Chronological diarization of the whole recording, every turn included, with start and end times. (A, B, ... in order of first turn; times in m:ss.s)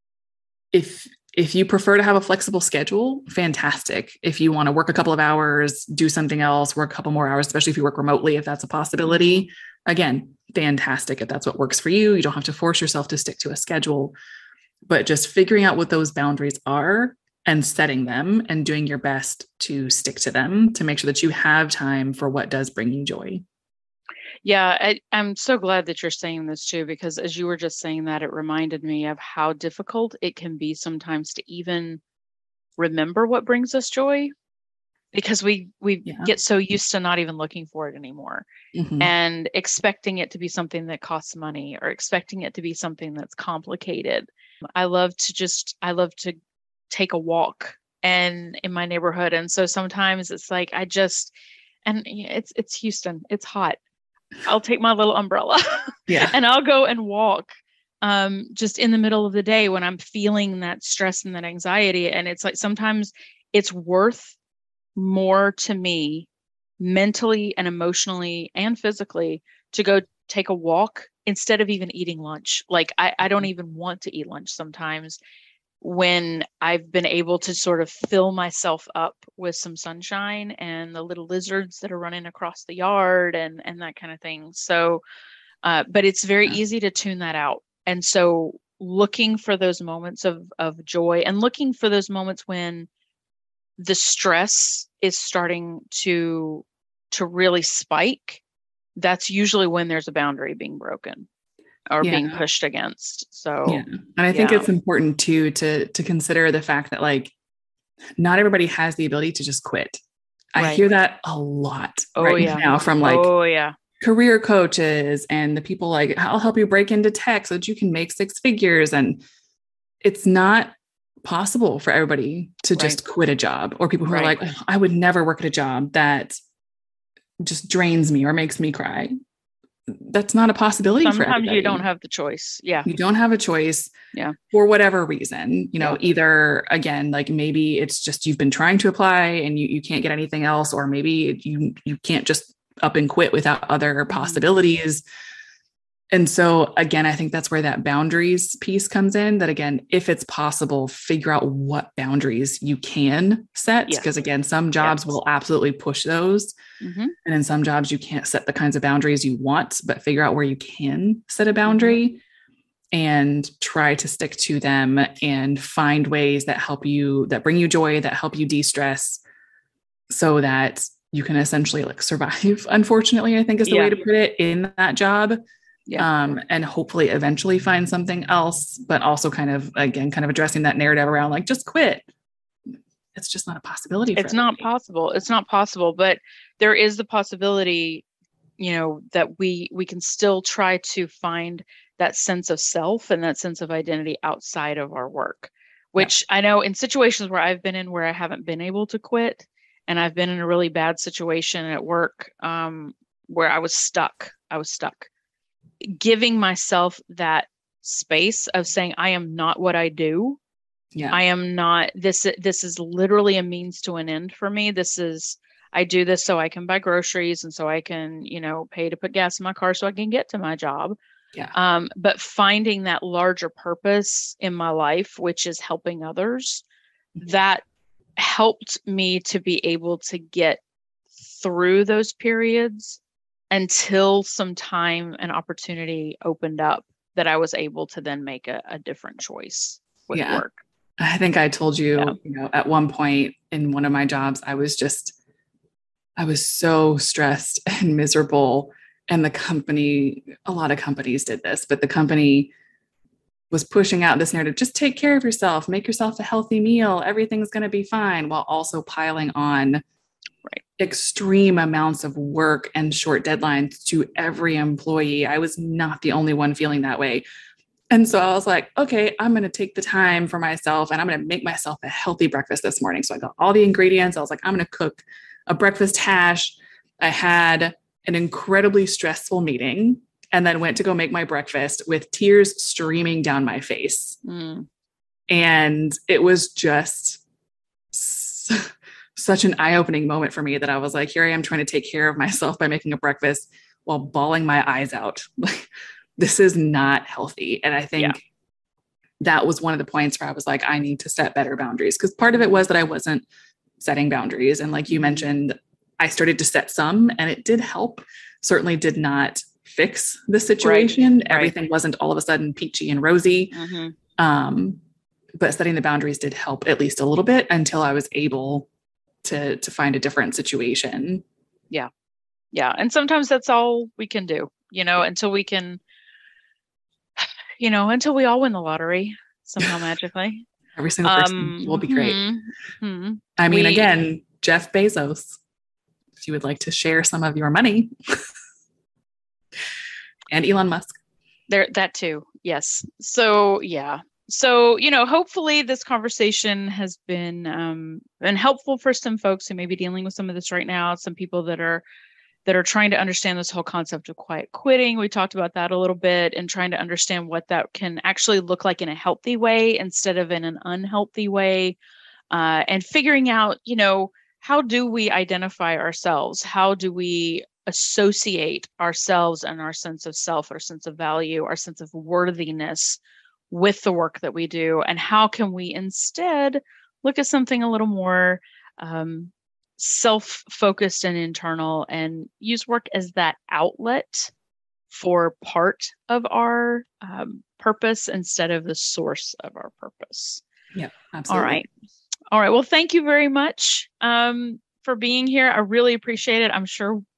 0:00.7-0:14.1 A
0:09.0-0:09.4 B
0:14.9-0:23.4 A
0:24.4-0:32.0 B
0:32.8-0:34.3 B
0:35.1-0:38.4 B
0:38.7-0:39.1 A
0:39.0-0:46.4 B
0:46.9-0:51.3 B
0:51.8-0:53.8 B
0:54.4-1:04.4 B
0:56.1-0:56.3 A
1:05.0-1:06.3 B
1:06.8-1:15.2 B
1:15.8-1:25.0 B
1:25.6-1:32.9 B
1:33.8-1:38.4 B
1:39.0-1:41.3 B
1:41.9-1:44.7 B
1:42.0-1:42.4 A
1:43.6-1:47.3 A
1:48.2-1:50.0 A
1:50.5-1:53.3 A
1:50.6-1:50.8 B
1:52.2-1:53.7 B
1:54.0-1:59.2 A
2:00.0-2:00.7 A
2:01.2-2:06.3 A
2:04.1-2:04.3 B
2:07.4-2:09.1 A
2:09.9-2:11.8 A
2:11.0-2:12.9 B
2:12.8-2:13.9 A
2:14.5-2:25.0 A
2:24.1-2:24.4 B
2:26.1-2:36.5 A
2:34.8-2:35.2 B
2:36.8-2:37.1 B
2:37.2-2:42.2 A
2:41.7-2:42.0 B
2:42.9-2:49.2 A
2:50.1-2:55.4 A
2:53.7-2:54.0 B
2:56.0-3:02.0 A
3:03.1-3:04.6 A
3:04.2-3:08.0 B
3:08.6-3:25.1 B
3:25.8-3:30.4 B
3:31.1-3:41.0 B
3:41.5-3:46.6 B
3:47.2-3:47.6 B
3:48.2-3:50.6 B
3:51.2-3:53.0 B
3:53.5-4:00.6 B
4:00.1-4:00.4 A
4:01.0-4:05.1 A
4:06.2-4:12.5 A
4:13.5-4:19.8 A
4:20.8-4:27.2 A
4:27.9-4:44.2 A
4:44.2-4:44.7 B
4:45.3-4:47.2 A
4:47.9-4:58.2 A
4:59.2-5:03.2 A
5:03.8-5:13.6 A
5:04.9-5:05.2 B
5:10.6-5:11.5 B
5:13.5-5:13.9 B
5:14.2-5:14.8 A
5:15.4-5:18.7 A
5:19.2-5:21.2 A
5:22.5-5:25.8 B
5:27.2-5:30.5 B
5:30.7-5:32.2 A
5:31.0-5:33.9 B
5:33.4-5:35.4 A
5:36.2-5:37.9 A
5:40.3-5:41.0 A
5:41.5-5:51.8 B
5:52.4-6:01.8 B
6:02.3-6:24.3 B
6:24.9-6:30.4 B
6:30.7-6:31.6 A
6:31.3-6:31.7 B
6:32.3-6:37.0 B